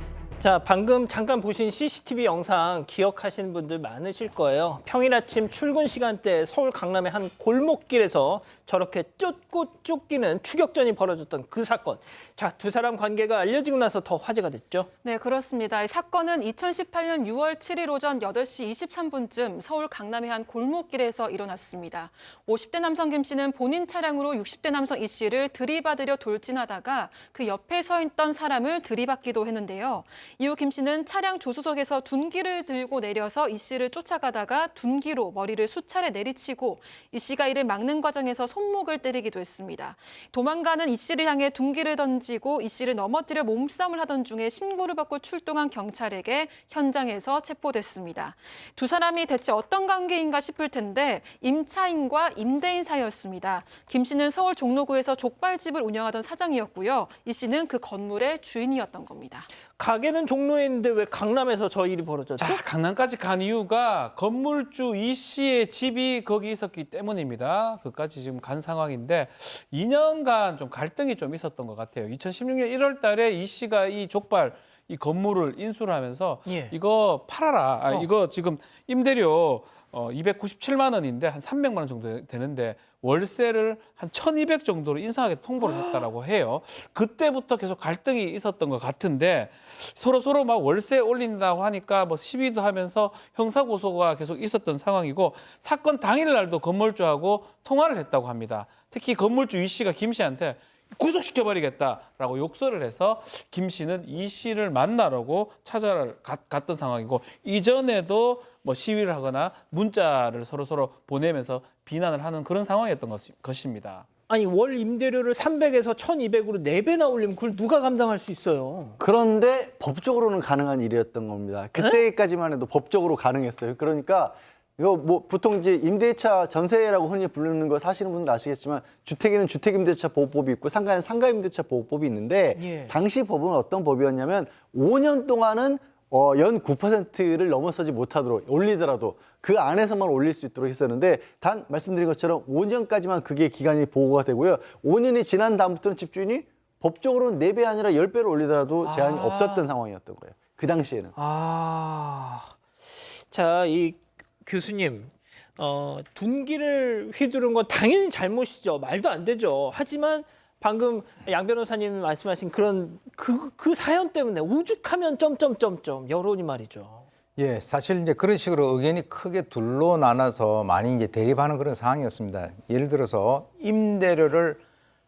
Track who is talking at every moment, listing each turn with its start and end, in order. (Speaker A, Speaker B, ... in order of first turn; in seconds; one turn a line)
Speaker A: 0.4-14.9
Speaker B: 15.0-59.5
Speaker A: 59.8-62.6
Speaker C: 62.4-114.1
Speaker A: 76.5-76.8
Speaker A: 85.6-86.0
Speaker A: 114.3-119.0
Speaker D: 119.0-151.1
Speaker A: 121.8-122.0
Speaker A: 132.6-132.9
Speaker A: 148.8-149.7
Speaker A: 151.2-167.1
Speaker E: 167.4-174.6